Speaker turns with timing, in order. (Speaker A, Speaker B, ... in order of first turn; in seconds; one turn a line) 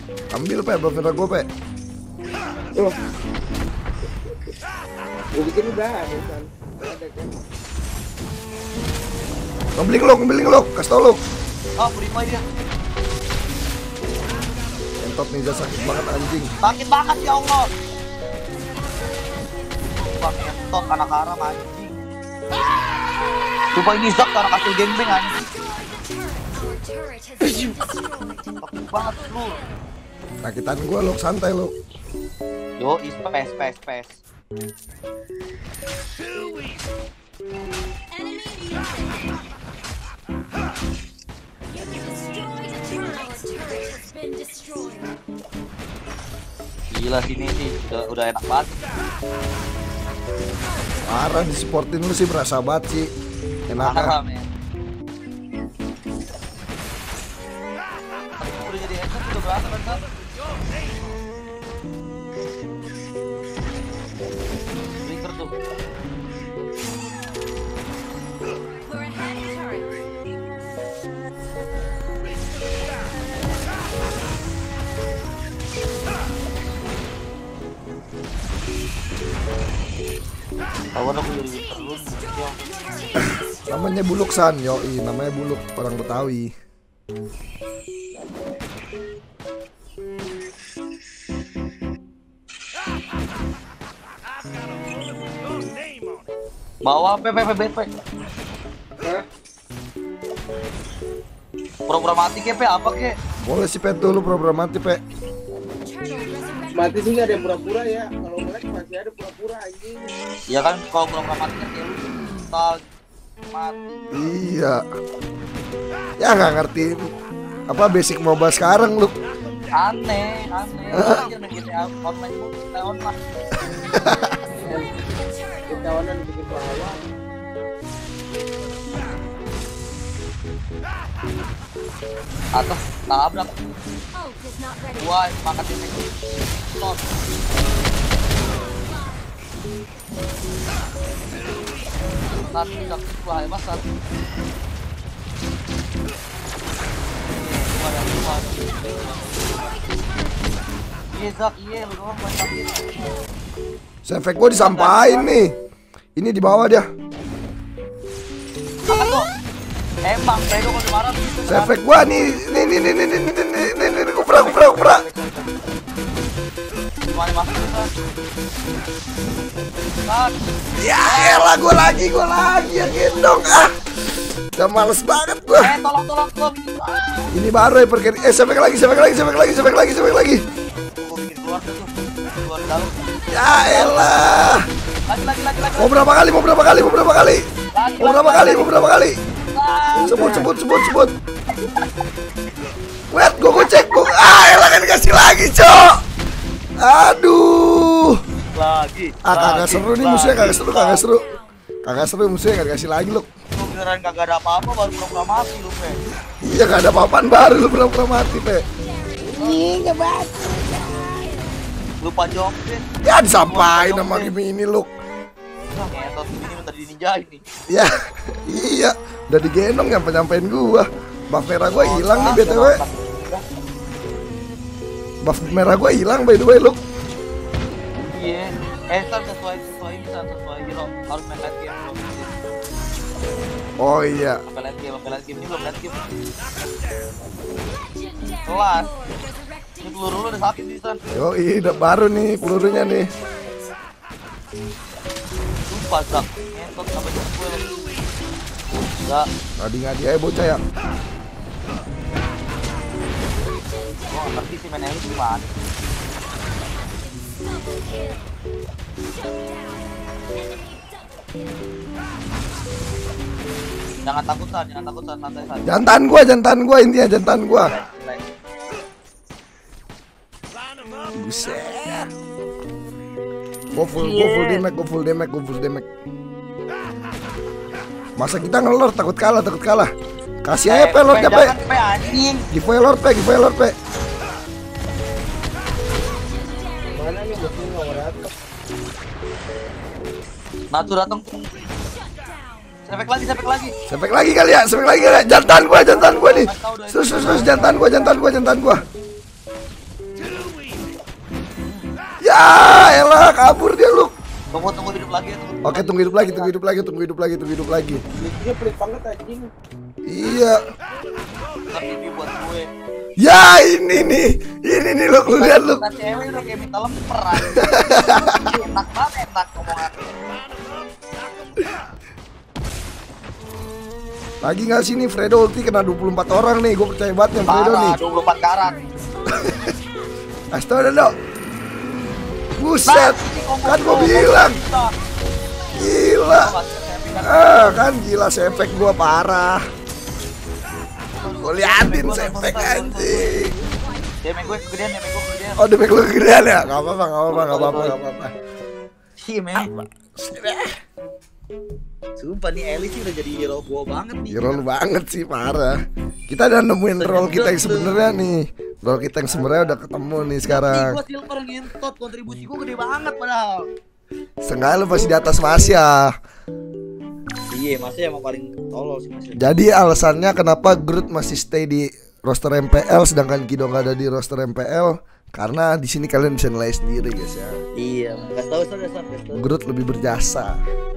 Speaker A: 0.3-1.5
Speaker B: 5.3-7.4
Speaker A: 9.8-11.2
Speaker C: 11.8-12.4
Speaker A: 15.0-16.5
Speaker C: 16.6-17.7
Speaker C: 19.8-21.9
Speaker C: 23.7-25.5
Speaker C: 28.6-29.6
Speaker A: 30.4-31.7
Speaker C: 32.8-34.2
Speaker C: 46.9-48.9
Speaker A: 51.0-53.1
Speaker A: 53.7-54.1
Speaker C: 53.8-54.5
Speaker C: 58.4-60.0
Speaker C: 65.0-65.5
Speaker C: 80.9-82.5
Speaker A: 83.2-86.5
Speaker C: 96.8-97.9
Speaker C: 101.9-103.1
Speaker A: 103.4-105.0
Speaker B: 106.7-110.2
Speaker C: 110.5-112.8
Speaker C: 113.5-114.3
Speaker A: 114.1-114.8
Speaker A: 116.2-117.0
Speaker A: 117.7-119.1
Speaker C: 119.8-123.2
Speaker A: 120.9-121.3
Speaker A: 123.9-124.3
Speaker B: 124.6-124.9
Speaker B: 125.7-127.0
Speaker C: 132.5-133.6
Speaker C: 134.9-137.2
Speaker C: 142.3-143.8
Speaker C: 147.3-149.8
Speaker C: 151.1-152.8
Speaker A: 154.0-155.5
Speaker C: 154.6-155.3
Speaker A: 156.2-156.9
Speaker C: 158.9-159.2
Speaker C: 160.0-161.7
Speaker A: 161.5-165.0
Speaker C: 164.2-165.5
Speaker C: 167.1-167.9
Speaker C: 170.1-170.3
Speaker A: 170.8-173.7
Speaker C: 171.0-171.5
Speaker A: 174.6-175.7
Speaker C: 175.6-177.3
Speaker A: 177.3-180.4
Speaker C: 181.0-184.4
Speaker A: 183.3-184.6
Speaker C: 185.1-185.9
Speaker A: 185.8-187.4
Speaker C: 187.7-188.8
Speaker A: 188.0-189.1
Speaker C: 189.5-190.2
Speaker B: 189.9-190.5
Speaker A: 190.0-191.1
Speaker C: 191.6-191.8
Speaker A: 193.1-195.9
Speaker C: 193.3-193.8
Speaker A: 196.8-198.2
Speaker C: 198.4-201.1
Speaker A: 199.2-203.3
Speaker C: 203.5-206.0
Speaker A: 206.4-208.7
Speaker B: 209.3-210.4
Speaker C: 209.3-209.6
Speaker C: 212.0-214.3
Speaker A: 213.0-214.9
Speaker C: 215.7-217.4
Speaker A: 217.7-222.8
Speaker C: 221.7-223.4
Speaker A: 225.2-226.8
Speaker C: 228.1-232.3
Speaker A: 233.8-234.4
Speaker C: 234.5-236.0
Speaker C: 238.4-238.9
Speaker C: 239.8-241.0
Speaker A: 241.1-243.1
Speaker C: 245.7-247.8
Speaker C: 249.0-249.3
Speaker A: 249.6-250.6
Speaker C: 254.1-255.6
Speaker C: 264.0-265.9
Speaker A: 265.6-267.7
Speaker C: 267.5-268.2
Speaker A: 271.1-272.1
Speaker A: 273.7-275.9
Speaker C: 273.9-274.6
Speaker A: 278.2-279.9
Speaker A: 280.4-281.6
Speaker C: 280.7-282.4
Speaker A: 282.5-283.7
Speaker B: 286.9-288.3
Speaker C: 290.7-291.4
Speaker C: 292.8-293.7
Speaker A: 293.9-298.8
Speaker C: 295.7-298.4
Speaker A: 302.2-304.1
Speaker C: 304.5-306.5
Speaker A: 305.6-308.0
Speaker B: 308.2-309.5
Speaker A: 310.1-310.6
Speaker C: 311.7-312.7
Speaker A: 313.2-315.8
Speaker C: 315.4-320.2
Speaker A: 317.4-318.2
Speaker A: 324.4-328.0
Speaker C: 327.5-328.8
Speaker A: 329.3-329.7
Speaker A: 330.5-331.1
Speaker A: 332.6-334.6
Speaker C: 332.9-334.9
Speaker A: 335.7-336.5
Speaker C: 336.2-337.8
Speaker A: 337.2-339.6
Speaker C: 341.1-343.3
Speaker A: 341.4-343.6
Speaker C: 344.2-345.6
Speaker A: 345.6-348.3
Speaker C: 347.3-347.9
Speaker C: 349.2-349.7
Speaker A: 349.6-350.7
Speaker C: 352.2-354.6
Speaker A: 354.3-355.8
Speaker A: 356.3-361.0
Speaker C: 357.0-358.2
Speaker C: 359.2-359.8
Speaker C: 360.5-363.7
Speaker A: 364.4-366.1
Speaker B: 365.3-365.7
Speaker C: 367.5-369.4
Speaker A: 369.3-377.6
Speaker C: 377.8-379.4
Speaker A: 379.4-380.6